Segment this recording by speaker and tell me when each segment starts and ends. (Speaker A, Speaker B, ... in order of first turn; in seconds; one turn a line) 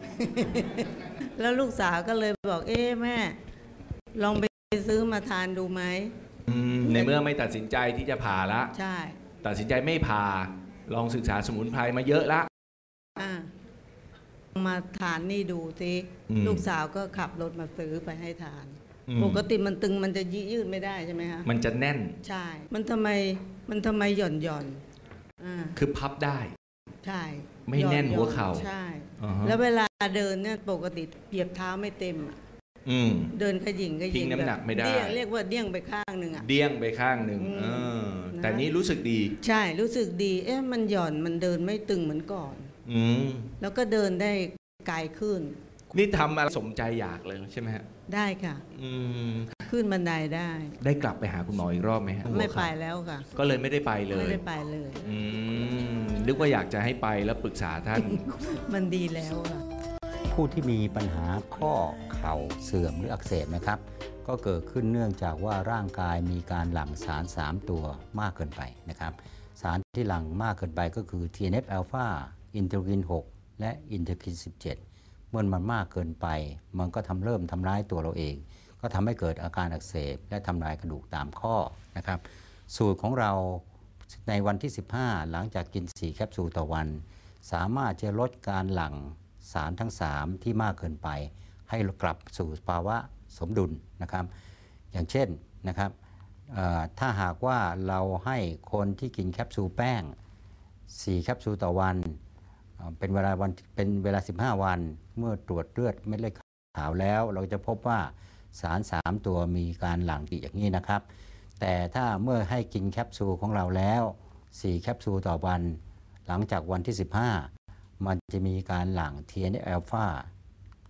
Speaker A: 0.2-3.4
Speaker A: 4.2-6.1
Speaker B: 6.5-8.7
Speaker A: 6.8-7.2
Speaker A: 8.7-9.2
Speaker B: 9.4-12.5
Speaker A: 13.2-13.5
Speaker A: 14.6-21.5
Speaker B: 16.3-16.6
Speaker B: 19.1-19.4
Speaker B: 21.4-22.1
Speaker A: 22.2-24.8
Speaker A: 25.4-25.8
Speaker B: 25.8-26.5
Speaker A: 27.0-32.4
Speaker B: 27.6-28.7
Speaker B: 29.2-29.6
Speaker B: 32.9-33.3
Speaker A: 33.3-36.5
Speaker B: 34.1-35.2
Speaker B: 36.4-39.3
Speaker A: 37.4-38.7
Speaker A: 39.4-42.7
Speaker B: 42.9-43.5
Speaker A: 43.6-45.6
Speaker B: 46.0-47.9
Speaker A: 48.1-48.6
Speaker B: 48.8-49.5
Speaker A: 49.7-50.7
Speaker B: 50.8-52.7
Speaker A: 52.3-53.3
Speaker B: 53.4-54.4
Speaker A: 54.1-55.1
Speaker B: 55.0-58.1
Speaker A: 58.0-59.6
Speaker C: 60.3-74.8
Speaker C: 75.3-94.3
Speaker C: 94.9-95.9
Speaker C: 96.5-100.2
Speaker C: 100.9-102.2
Speaker C: 102.8-111.0
Speaker C: 111.6-120.3